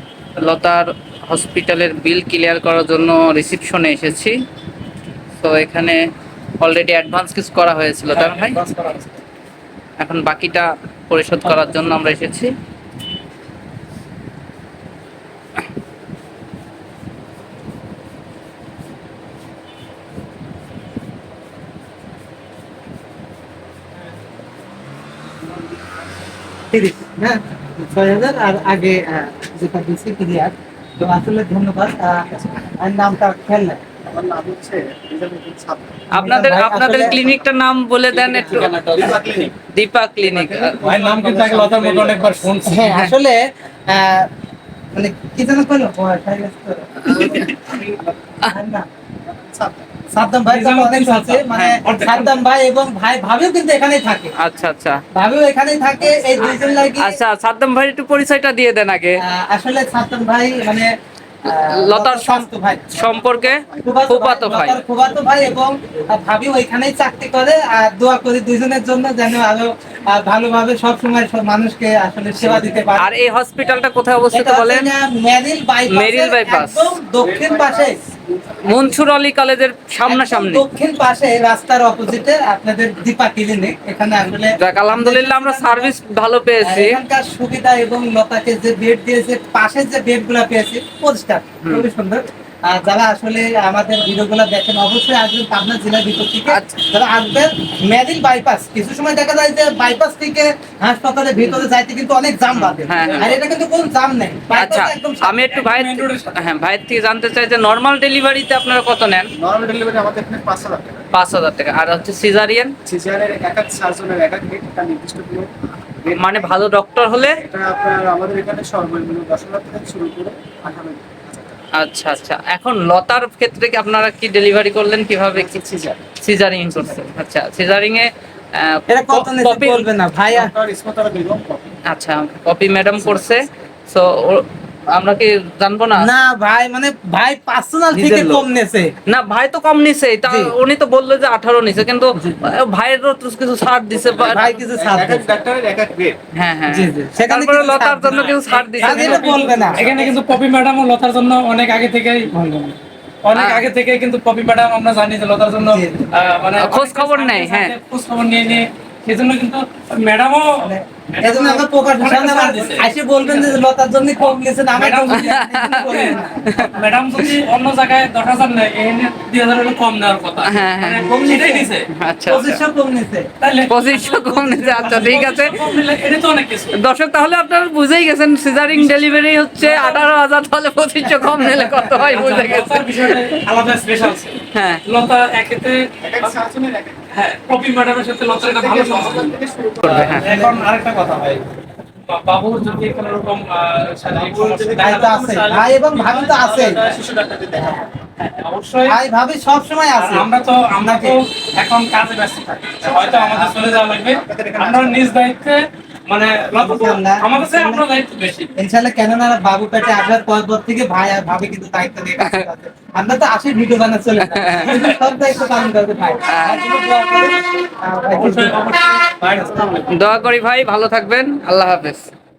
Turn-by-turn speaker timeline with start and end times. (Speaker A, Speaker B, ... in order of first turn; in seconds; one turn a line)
Speaker A: 0.4-4.3
Speaker A: 5.4-6.0
Speaker A: 6.6-8.6
Speaker B: 8.1-9.1
Speaker A: 10.0-12.5
Speaker C: 25.4-26.0
Speaker D: 26.7-33.8
Speaker C: 34.0-36.1
Speaker A: 36.1-39.2
Speaker D: 36.2-37.2
Speaker C: 36.9-37.4
Speaker C: 38.1-39.5
Speaker A: 39.7-40.8
Speaker C: 40.2-42.4
Speaker B: 40.8-42.9
Speaker D: 42.6-44.3
Speaker A: 42.8-43.1
Speaker D: 44.9-47.5
Speaker C: 47.0-48.3
Speaker A: 47.1-47.5
Speaker D: 48.5-48.9
Speaker C: 49.2-50.0
Speaker D: 50.1-54.3
Speaker B: 50.5-52.4
Speaker A: 54.4-55.0
Speaker D: 55.1-57.1
Speaker C: 56.1-56.6
Speaker A: 57.0-59.2
Speaker D: 59.2-60.9
Speaker D: 61.4-62.9
Speaker A: 61.5-64.8
Speaker C: 62.9-64.0
Speaker D: 63.8-73.1
Speaker A: 72.4-74.9
Speaker D: 74.3-78.0
Speaker A: 75.9-77.0
Speaker C: 77.2-79.1
Speaker A: 78.6-80.6
Speaker D: 80.0-85.9
Speaker A: 84.4-87.0
Speaker D: 86.6-105.3
Speaker A: 96.5-96.7
Speaker A: 102.5-103.3
Speaker C: 103.0-103.3
Speaker A: 104.5-109.3
Speaker B: 105.5-106.5
Speaker C: 109.3-111.1
Speaker A: 111.1-112.7
Speaker C: 112.8-116.5
Speaker A: 116.1-117.4
Speaker C: 117.4-121.6
Speaker A: 121.8-125.6
Speaker C: 125.3-126.0
Speaker A: 126.2-129.8
Speaker D: 128.9-130.5
Speaker C: 130.3-131.7
Speaker A: 131.9-136.1
Speaker D: 136.0-138.9
Speaker A: 137.9-138.4
Speaker A: 139.1-144.5
Speaker D: 140.3-140.5
Speaker D: 142.2-142.4
Speaker C: 143.9-146.2
Speaker D: 144.2-145.4
Speaker A: 146.3-149.6
Speaker D: 146.7-149.9
Speaker B: 148.0-152.3
Speaker C: 149.6-150.0
Speaker D: 152.3-152.8
Speaker B: 153.2-163.6
Speaker A: 153.3-153.6
Speaker D: 155.6-156.1
Speaker A: 156.5-157.7
Speaker D: 160.6-166.7
Speaker B: 164.7-172.6
Speaker A: 165.1-166.7
Speaker A: 170.4-171.1
Speaker D: 171.1-171.7
Speaker A: 172.0-172.5
Speaker D: 172.3-173.3
Speaker B: 173.4-176.7
Speaker A: 173.7-175.6
Speaker A: 176.7-183.3
Speaker B: 179.6-180.1
Speaker B: 182.0-186.4
Speaker A: 184.5-184.8
Speaker C: 186.0-187.0
Speaker B: 187.1-191.5
Speaker C: 188.3-190.2
Speaker A: 189.8-190.2
Speaker D: 190.2-190.7
Speaker B: 192.1-197.0
Speaker C: 194.1-195.3
Speaker D: 194.7-196.8
Speaker C: 196.0-197.9
Speaker B: 198.2-199.0
Speaker D: 198.8-200.3
Speaker B: 199.9-208.5
Speaker D: 200.8-201.2
Speaker C: 202.8-205.2
Speaker D: 206.5-207.8
Speaker D: 208.6-218.8
Speaker A: 214.3-214.7
Speaker B: 214.7-215.0
Speaker A: 216.3-216.6
Speaker B: 218.1-219.8
Speaker A: 219.9-222.1